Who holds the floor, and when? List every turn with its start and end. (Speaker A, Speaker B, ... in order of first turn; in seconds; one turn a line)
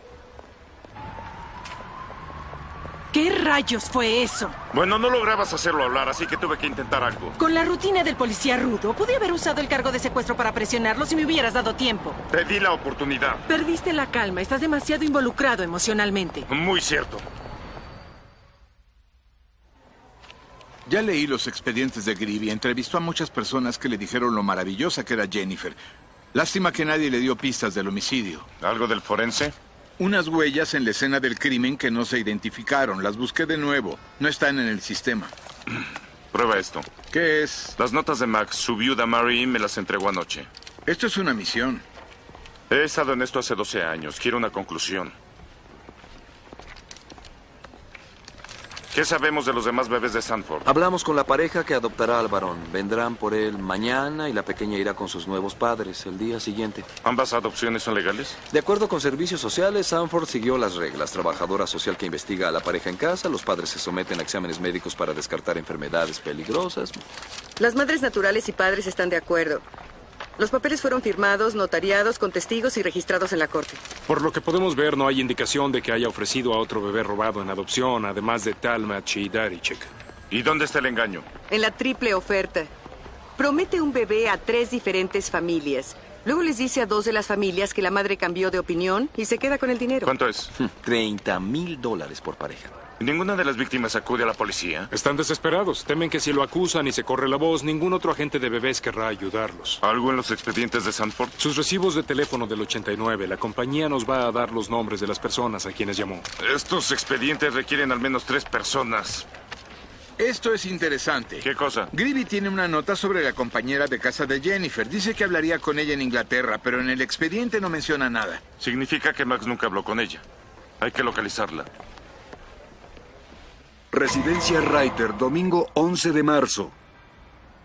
Speaker A: 3.1-4.6
Speaker B: 4.7-7.3
Speaker A: 7.4-12.2
Speaker B: 12.3-13.4
Speaker A: 13.5-16.5
Speaker B: 16.5-17.2
Speaker C: 20.9-25.8
Speaker C: 26.3-28.5
Speaker B: 28.6-29.5
Speaker C: 30.0-35.3
Speaker B: 36.3-36.9
Speaker C: 37.1-37.8
Speaker B: 37.8-40.5
Speaker C: 40.9-41.8
Speaker B: 42.7-45.1
Speaker B: 48.9-50.6
Speaker D: 50.6-56.9
Speaker B: 57.0-58.4
Speaker D: 58.5-67.0
Speaker E: 67.6-69.6
Speaker E: 70.4-73.8
Speaker F: 74.1-79.9
Speaker B: 80.3-81.2
Speaker E: 81.5-82.7
Speaker E: 83.4-90.1
Speaker B: 90.0-90.5
Speaker D: 90.6-92.8
Speaker B: 93.0-94.9
Speaker F: 94.9-99.8
Speaker B: 99.8-101.3
Speaker F: 101.4-106.2
Speaker B: 106.4-109.2
Speaker C: 110.2-118.4
Speaker B: 111.4-111.9
Speaker B: 118.6-120.2
Speaker B: 120.8-121.7
Speaker G: 123.9-126.7